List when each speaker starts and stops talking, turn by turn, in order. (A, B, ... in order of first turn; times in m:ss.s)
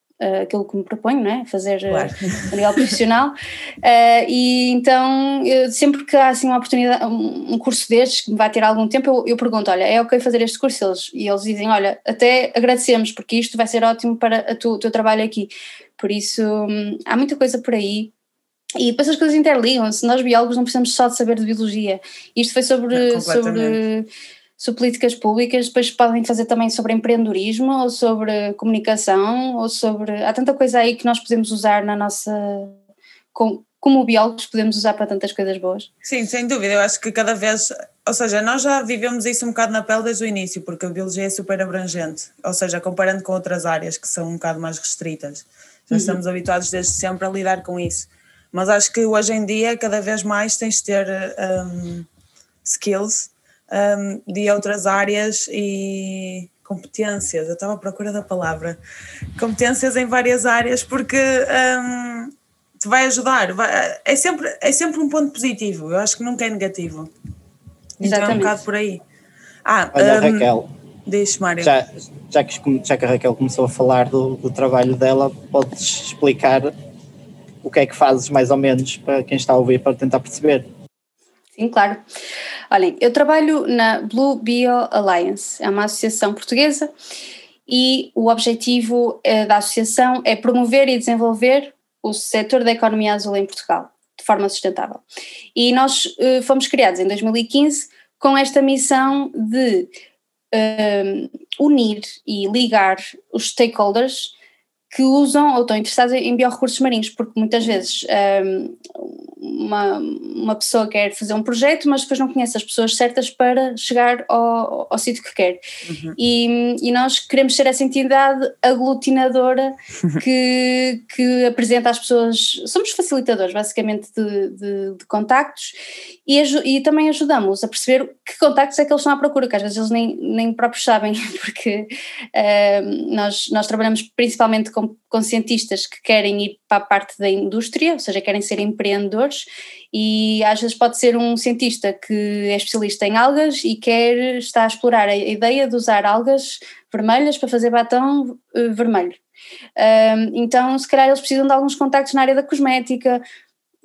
0:00.2-0:18.1 A
0:01.9-0:02.9 B
0:18.8-0:32.8 A
0:22.9-0:23.8 B
0:33.3-0:35.9 A
0:36.0-0:52.1 B
0:45.9-0:46.2 A
0:52.6-0:58.8 B
0:59.4-1:07.1 B
1:08.0-1:09.0 B
1:08.0-1:08.6 A
1:09.6-1:10.5 B
1:09.9-1:10.7 C
1:11.0-1:11.7 B
1:11.6-1:16.7 C
1:17.6-1:20.7 C
1:21.6-1:22.0 A
1:22.7-1:26.9 A
1:27.7-1:35.0 A
1:35.5-1:39.9 A
1:40.5-1:44.3 A
1:44.9-1:55.6 A
1:55.8-1:56.2 B
1:56.2-2:29.2 A
2:29.8-2:33.2 A